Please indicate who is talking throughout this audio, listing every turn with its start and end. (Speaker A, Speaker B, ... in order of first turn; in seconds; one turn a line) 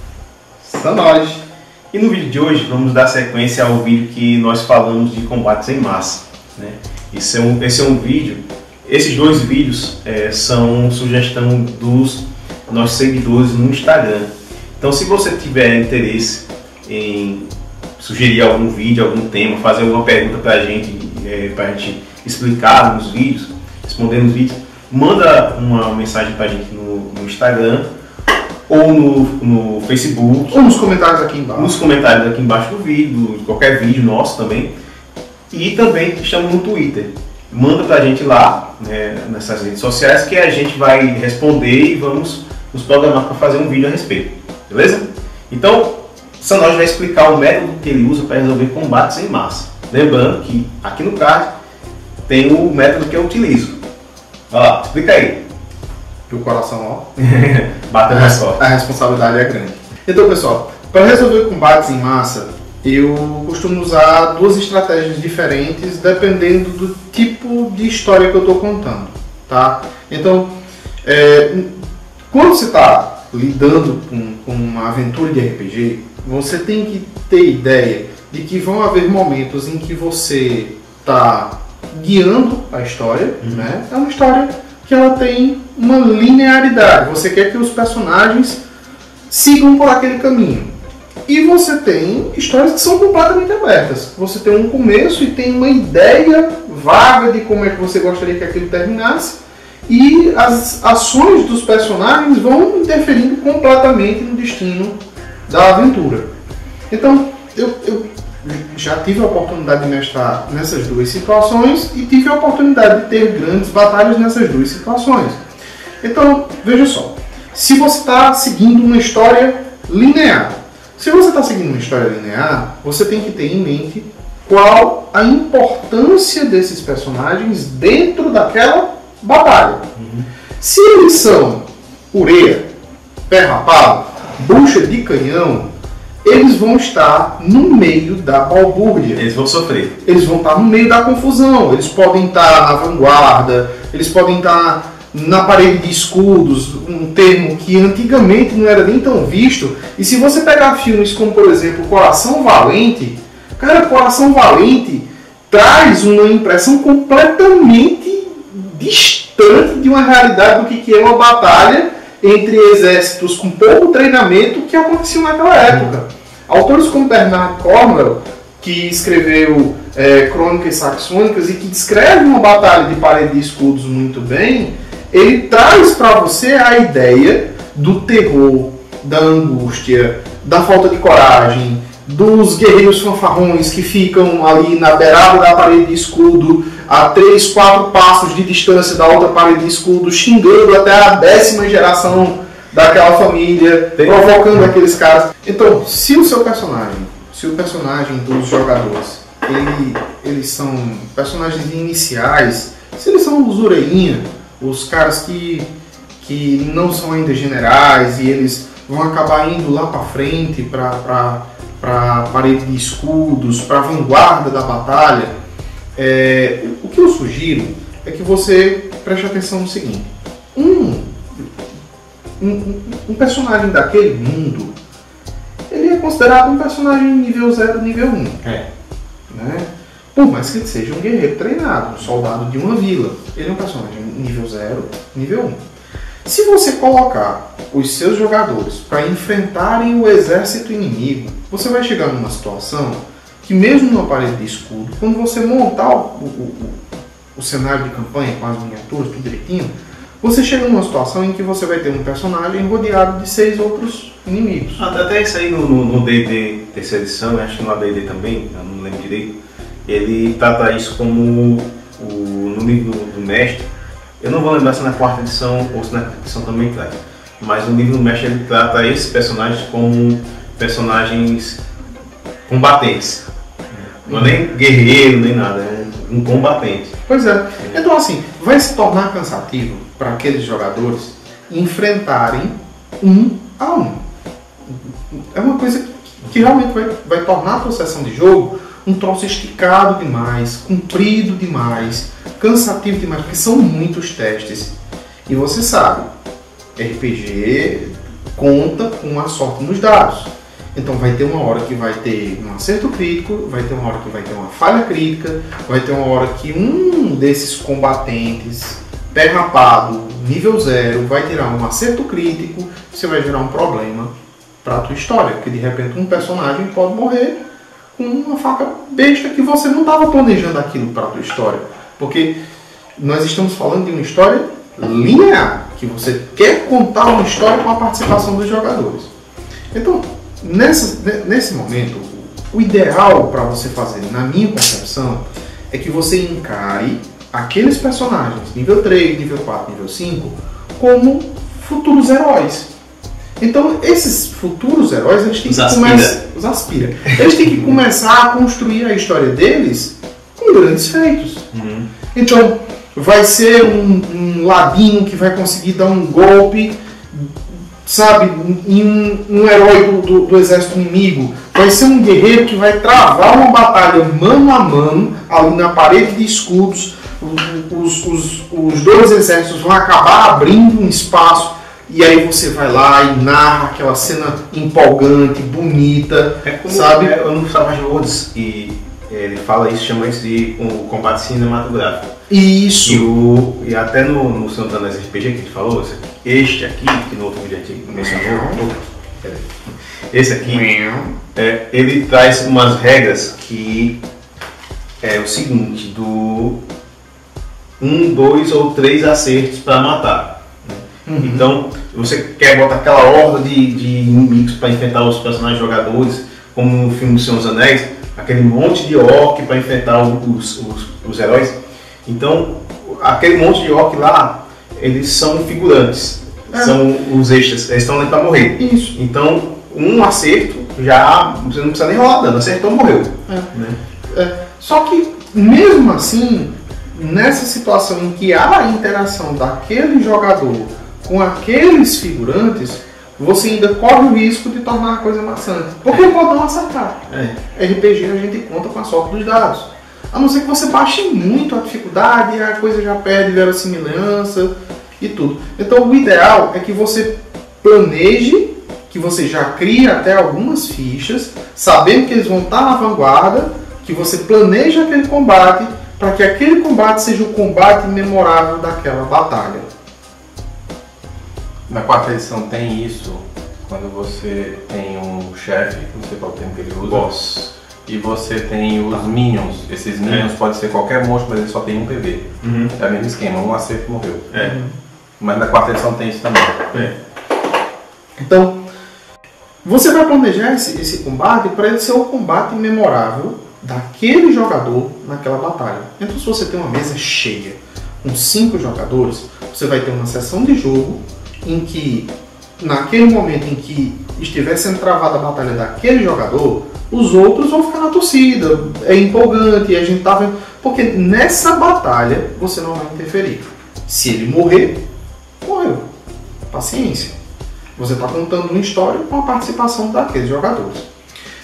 Speaker A: 0.6-1.4
Speaker B: 1.9-17.5
Speaker B: 18.0-27.9
Speaker B: 28.7-30.9
Speaker A: 30.5-31.8
Speaker B: 31.6-34.7
Speaker B: 35.5-51.5
Speaker B: 52.3-53.8
Speaker B: 54.5-55.4
Speaker A: 56.3-57.2
Speaker B: 57.2-58.6
Speaker A: 58.1-70.5
Speaker A: 71.0-71.7
Speaker A: 72.3-88.6
Speaker B: 83.4-83.7
Speaker A: 89.3-90.7
Speaker A: 91.3-106.3
Speaker A: 106.9-115.4
Speaker A: 116.0-129.8
Speaker B: 130.0-130.3
Speaker A: 130.6-132.7
Speaker A: 133.3-135.7
Speaker A: 136.2-139.2
Speaker B: 139.2-139.9
Speaker A: 140.0-205.7
Speaker B: 194.0-194.7
Speaker A: 206.2-215.3
Speaker A: 216.0-221.5
Speaker A: 222.4-224.7
Speaker A: 225.7-228.4
Speaker A: 229.3-235.6
Speaker A: 236.2-246.8
Speaker A: 247.4-254.8
Speaker B: 254.8-263.7
Speaker B: 264.2-271.6
Speaker B: 272.5-277.0
Speaker A: 274.1-274.4
Speaker A: 277.1-284.0
Speaker A: 284.7-294.8
Speaker A: 295.3-296.1
Speaker A: 296.8-314.1
Speaker A: 314.6-317.4
Speaker A: 317.9-322.4
Speaker A: 323.0-329.1
Speaker A: 329.7-342.7
Speaker A: 343.4-351.5
Speaker B: 345.4-346.2
Speaker B: 347.4-347.8
Speaker B: 351.5-351.9
Speaker A: 352.1-377.1
Speaker B: 376.4-382.1
Speaker A: 382.3-383.1
Speaker B: 382.8-390.7
Speaker A: 387.9-388.6
Speaker A: 390.4-391.2
Speaker B: 391.4-394.0
Speaker B: 395.0-396.6
Speaker B: 397.8-423.8
Speaker A: 401.1-401.5
Speaker A: 418.4-419.0
Speaker A: 424.1-459.7
Speaker B: 437.1-437.4
Speaker C: 461.7-467.1
Speaker B: 466.8-467.5
Speaker C: 467.9-474.3
Speaker B: 472.4-472.7
Speaker B: 474.3-474.6
Speaker A: 474.4-474.8
Speaker C: 475.2-476.9
Speaker A: 478.2-478.6
Speaker A: 479.6-504.8
Speaker A: 505.4-505.9
Speaker A: 506.5-507.1
Speaker A: 507.8-510.9